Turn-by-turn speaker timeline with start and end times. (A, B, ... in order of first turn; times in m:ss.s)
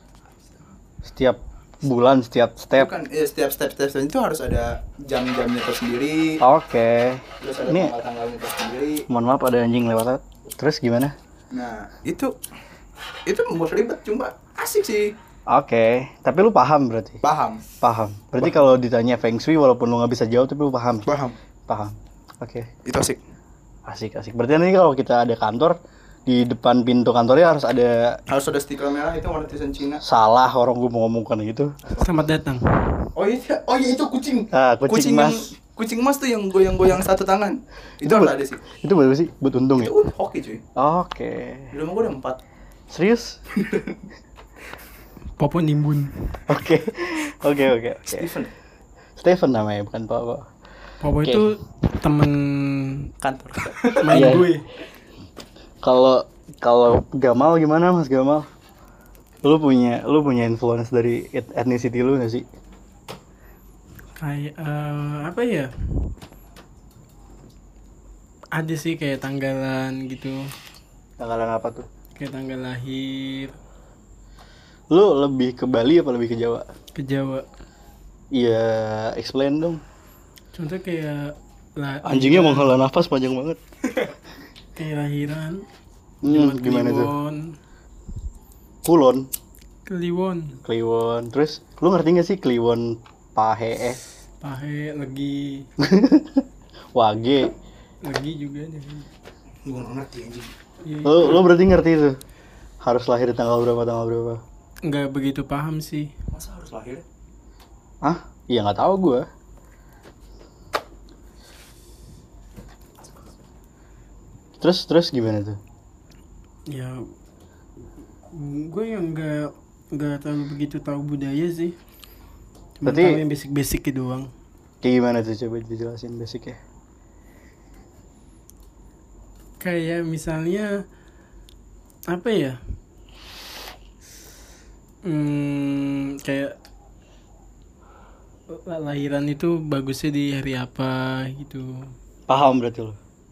0:01.0-0:02.9 A
0:02.7-0:06.4 B
0:06.4-0:07.9 A
0:07.4-0:09.0 B
0:09.1-0:11.1 A
0:11.5-0:12.3 B
0:13.2-0:15.1 B
0:15.5-0:17.2 A
0:17.2-0:17.6 B
0:17.8-0:21.1 A
0:21.1-0:21.3 B
0:21.7-0:22.7 A
0:22.8-0:23.2 B
0:23.9-0:28.2 A
0:28.3-0:30.0 B
0:30.0-0:31.8 A
0:32.0-0:33.0 C
0:33.1-0:38.6 B
0:34.5-0:35.5 A
0:38.0-0:39.9 A
0:39.8-0:40.6 B
0:40.7-0:41.7 A
0:41.7-0:42.4 B
0:42.9-0:43.4 A
0:43.5-0:44.0 B
0:45.4-0:46.4 C
0:46.5-0:48.3 A
0:48.1-0:48.5 B
0:49.2-0:50.5 A
0:51.0-0:53.1 C
0:51.2-0:51.5 A
0:53.2-0:54.2 B
0:53.8-0:54.6 C
0:54.1-0:54.6 A
0:55.8-0:58.5 A
0:59.4-1:02.4 A
1:04.2-1:06.1 C
1:08.5-1:10.4 C
1:11.2-1:11.8 A
1:12.2-1:13.5 C
1:14.9-1:16.7 A
1:16.9-1:17.4 C
1:18.3-1:19.8 A
1:20.5-1:22.8 C
1:22.0-1:23.6 A
1:24.8-1:25.6 C
1:26.2-1:27.1 A
1:26.2-1:27.5 C
1:28.8-1:29.3 A
1:29.9-1:30.6 C
1:30.6-1:34.0 A
1:34.4-1:35.7 C
1:35.8-1:37.5 A
1:38.0-1:39.1 C
1:39.6-1:40.5 B
1:40.8-1:41.3 C
1:41.0-1:42.2 A
1:42.8-1:44.4 A
1:44.8-1:46.1 C
1:46.3-1:47.0 B
1:48.0-1:49.2 A
1:54.6-1:55.6 A
1:56.7-1:57.0 C
1:58.3-2:01.8 C
2:02.8-2:04.3 C
2:02.8-2:03.2 A
2:04.8-2:06.6 A
2:09.6-2:10.8 C
2:12.1-2:12.6 C
2:15.0-2:16.5 C
2:18.5-2:21.8 C
2:22.3-2:23.0 A